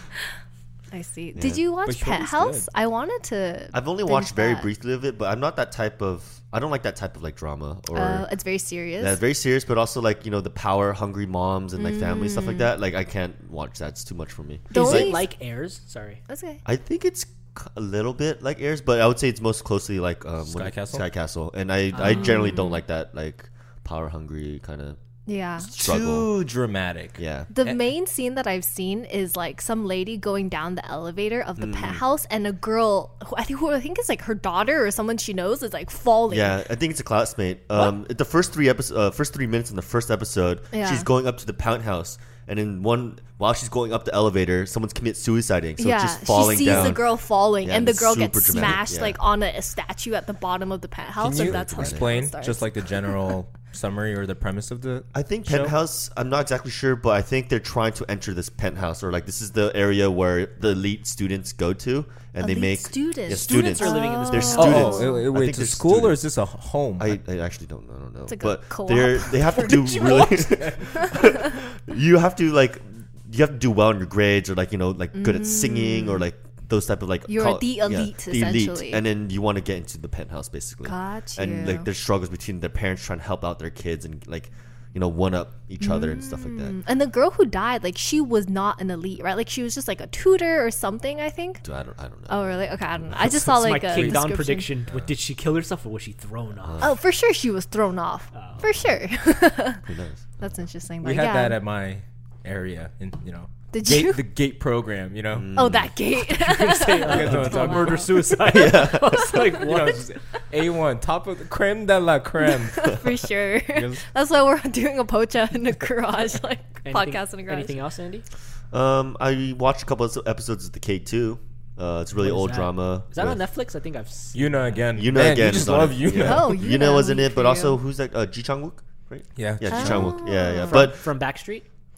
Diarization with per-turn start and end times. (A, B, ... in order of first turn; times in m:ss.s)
0:00.9-0:04.7 A
0:01.4-0:01.6 B
0:01.8-0:02.7 C
0:03.7-0:08.3 B
0:07.9-0:09.2 A
0:09.0-0:15.2 B
0:11.8-0:12.7 A
0:14.7-0:15.3 A
0:14.7-0:16.2 D
0:16.3-0:16.6 A
0:16.6-0:25.0 B
0:20.4-0:21.1 C
0:22.0-0:22.8 A
0:22.0-0:22.3 D
0:25.3-0:25.7 A
0:25.6-0:26.3 B
0:25.8-0:27.8 C
0:27.2-0:27.5 B
0:27.5-0:36.6 A
0:31.6-0:32.0 B
0:36.3-0:47.0 B
0:40.7-0:41.1 A
0:45.8-0:53.3 A
0:47.6-0:49.2 B
0:51.2-0:55.7 C
0:51.3-0:52.1 B
0:55.1-1:06.2 B
1:02.4-1:05.3 A
1:03.3-1:04.9 D
1:04.6-1:07.2 C
1:07.0-1:26.8 B
1:08.3-1:11.4 A
1:09.6-1:11.0 C
1:15.1-1:16.3 A
1:17.3-1:19.0 A
1:20.8-1:21.9 A
1:25.8-1:31.6 A
1:31.6-1:33.3 B
1:32.3-1:34.7 A
1:33.2-1:36.9 D
1:36.6-1:37.0 B
1:36.8-1:39.9 A
1:38.3-1:38.6 D
1:39.9-1:40.6 B
1:40.4-1:41.6 A
1:41.0-1:45.9 C
1:43.7-1:44.2 A
1:45.3-1:45.9 B
1:45.5-1:49.7 A
1:46.1-1:50.1 D
1:47.0-1:48.1 C
1:48.4-1:49.5 B
1:49.6-1:54.0 C
1:52.7-1:57.8 A
1:56.8-1:58.3 D
1:58.7-2:03.4 B
2:02.1-2:04.8 D
2:04.4-2:06.6 C
2:05.0-2:11.1 B
2:06.2-2:07.8 A
2:09.4-2:10.2 C
2:09.7-2:10.9 A
2:10.6-2:11.7 D